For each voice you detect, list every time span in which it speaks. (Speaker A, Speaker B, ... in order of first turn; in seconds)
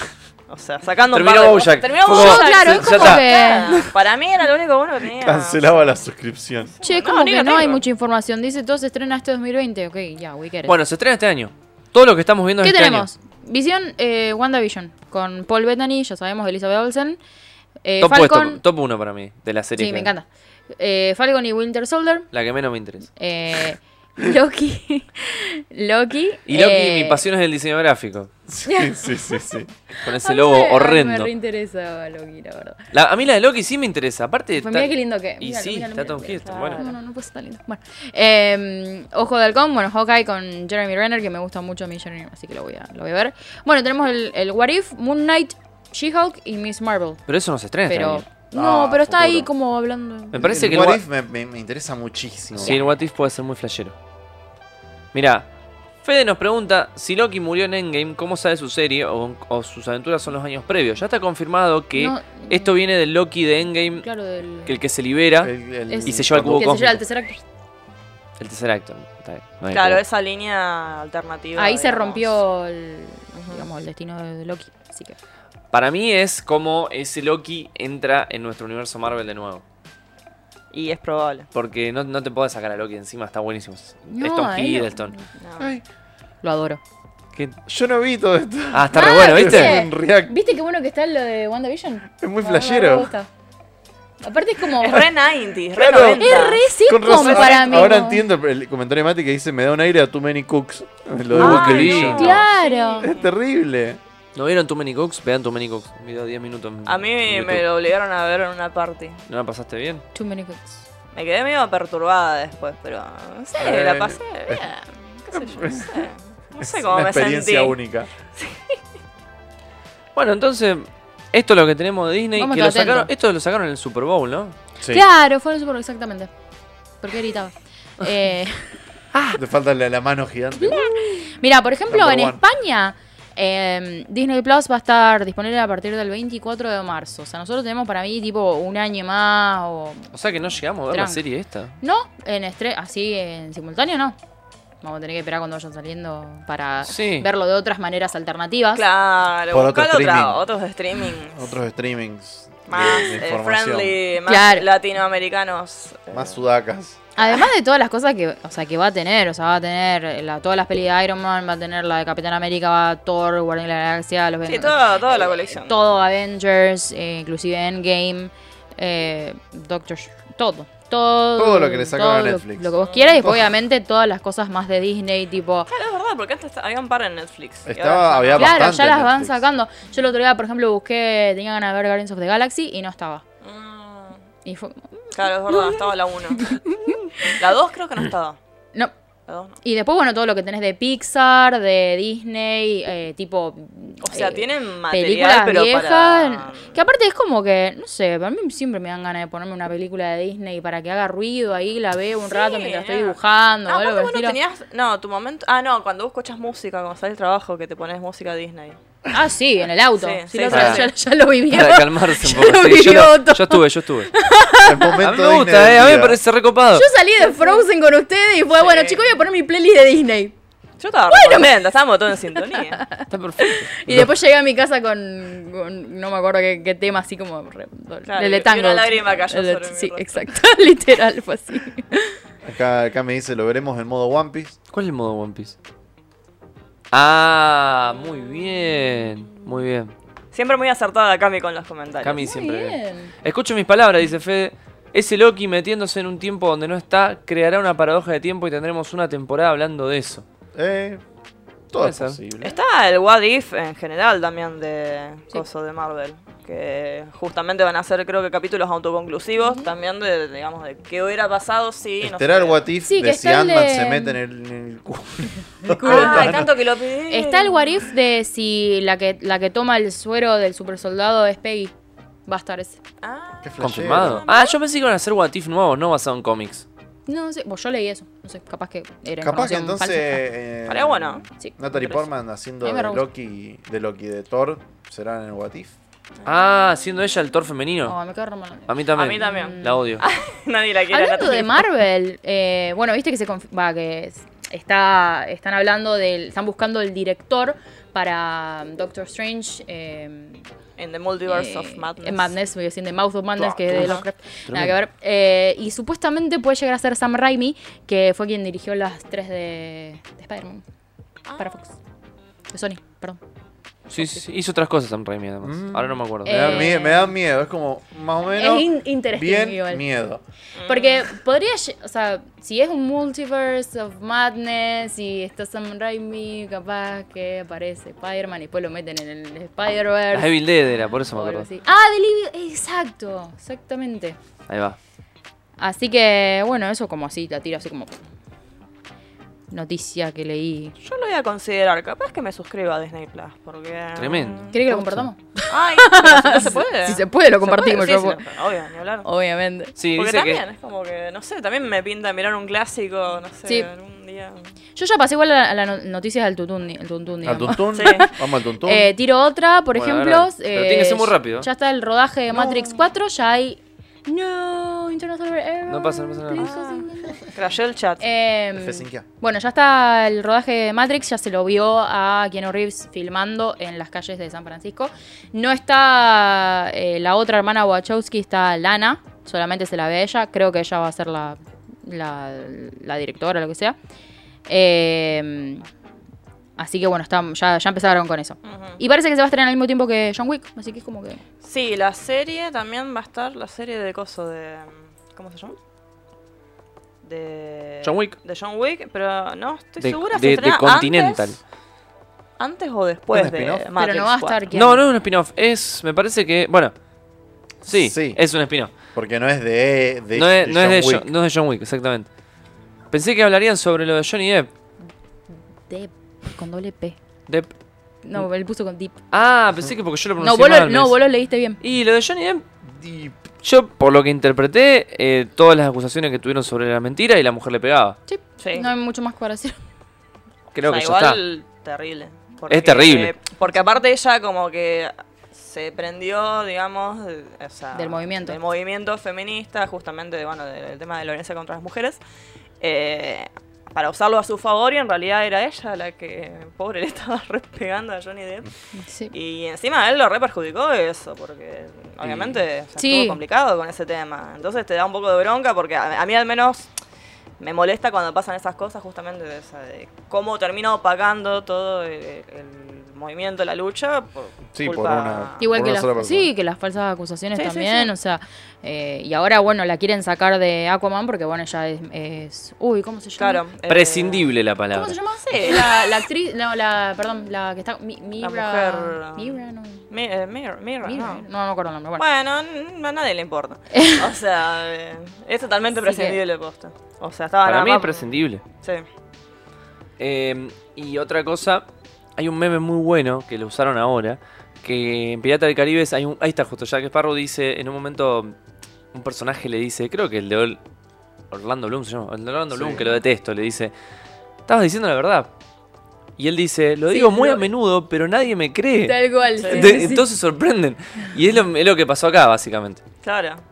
Speaker A: 0.5-5.9, 6.8-7.8, 36.4-37.0, 69.7-72.4, 73.3-73.7, 80.7-81.5, 85.4-85.7, 94.8-98.0, 101.4-103.3, 106.9-109.2, 111.1-117.8, 118.4-118.8, 148.7-151.5, 152.7-156.4, 157.2-157.4, 164.4-165.8, 172.8-173.2, 175.7-178.7, 183.4-184.2, 185.1-186.6, 187.3-188.4, 189.3-189.6, 194.0-196.8, 202.3-208.8, 209.9-210.9, 217.2-217.7, 218.5-219.1, 220.8-222.8, 228.1-230.3, 240.3-242.2, 252.4-262.6, 265.8-267.7, 273.0-274.6, 280.7-281.3, 288.9-291.6, 300.8-302.3, 303.7-304.1, 311.3-311.6, 320.6-321.1, 340.8-344.6, 345.5-349.1, 349.9-354.5, 357.7-358.1, 362.3-362.8, 366.4-368.0, 388.4-388.8, 391.4-395.6, 397.0-401.3, 402.4-404.4, 428.4-428.7, 430.7-442.0, 442.6-448.5, 449.1-456.7, 457.4-465.4, 473.2-474.3, 475.3-476.0, 478.2-481.2, 482.0-488.1, 509.4-509.8, 513.0-513.4
Speaker B: 1.1-3.9, 10.6-13.1, 18.0-20.1, 22.3-23.1, 26.5-28.3, 30.0-31.3, 32.9-36.8, 47.3-48.3, 50.3-51.0, 52.5-53.9, 55.1-55.5, 56.0-64.0, 64.6-65.5, 66.0-67.0, 68.4-70.0, 75.7-79.6, 81.5-85.1, 88.7-89.8, 101.3-102.4, 104.3-107.6, 109.3-110.0, 120.1-124.5, 129.1-129.4, 140.1-141.7, 146.8-147.3, 210.5-210.8, 211.5-214.1, 215.0-216.9, 223.1-223.8, 234.7-235.6, 236.9-239.9, 242.0-250.2, 251.8-252.2, 273.6-276.6, 286.2-287.9, 288.7-290.0, 303.4-304.8, 313.9-316.7, 330.1-331.5, 334.5-334.8, 344.0-345.1, 349.8-350.4, 359.7-361.5, 365.7-366.5, 397.8-398.1, 399.8-401.4, 404.5-406.7, 407.6-408.7, 410.1-412.1, 412.9-414.5, 419.1-420.9, 421.6-422.4, 423.4-428.0, 430.5-431.2, 432.5-433.1, 467.4-467.9, 473.7-475.0, 487.4-488.4, 490.0-491.6, 492.2-498.4, 498.9-500.6, 501.3-503.7, 504.5-505.3, 506.2-512.8
Speaker C: 2.0-3.8, 6.8-10.7, 12.6-17.2, 17.8-18.6, 19.8-22.3, 23.1-27.2, 28.6-29.5, 30.1-32.8, 34.6-47.2, 47.9-50.6, 52.6-52.9, 62.0-62.7, 64.0-64.8, 65.9-67.4, 71.5-75.2, 84.1-85.2, 86.4-86.8, 88.9-93.3, 94.2-95.1, 96.2-98.2, 101.5-103.1, 110.1-110.8, 122.4-123.1, 124.9-126.3, 127.0-128.8, 130.6-140.1, 140.9-141.2, 141.8-144.2, 144.8-148.8, 154.3-154.7, 157.2-175.7, 178.3-183.2, 184.4-187.4, 189.6-204.4, 209.1-215.0, 216.7-220.3, 221.1-221.6, 222.3-232.1, 242.2-243.1, 259.4-259.7, 262.9-264.2, 265.6-266.5, 267.1-271.7, 272.3-272.8, 277.1-280.2, 282.6-283.1, 287.8-289.9, 290.9-300.4, 301.3-310.6, 311.4-311.7, 312.5-313.2, 314.0-314.2, 316.2-317.1, 318.3-319.8, 320.6-330.4, 331.1-334.2, 335.6-337.9, 339.5-340.7, 344.5-348.2, 349.1-349.7, 354.8-367.3, 368.0-383.8, 384.5-385.6, 386.6-391.2, 403.8-404.8, 415.7-417.0, 418.0-419.0, 420.2-421.6, 428.1-429.6, 437.7-438.4, 448.8-449.1, 452.8-453.2, 465.4-473.4, 474.7-479.8, 480.8-482.0, 483.7-484.1, 485.8-486.2, 506.9-507.4, 508.8-510.1
Speaker D: 5.2-6.7, 28.5-29.7, 48.5-49.5, 50.3-52.8, 65.4-66.9, 85.6-85.8, 87.7-90.3, 92.2-93.1, 95.7-102.5, 103.0-104.0, 113.6-114.7, 115.3-116.1, 116.6-118.1, 124.8-125.0, 129.4-130.9, 131.9-132.4, 149.5-150.4, 151.3-154.0, 156.1-157.0, 171.4-173.5, 177.7-179.4, 214.6-216.2, 232.4-234.6, 250.6-251.0, 251.7-252.6, 262.0-266.5, 273.4-274.2, 279.2-285.7, 315.4-320.2, 357.2-358.9, 368.6-369.1, 403.1-403.7, 407.7-408.2, 408.9-411.1, 422.6-423.2, 464.5-466.3, 502.5-502.8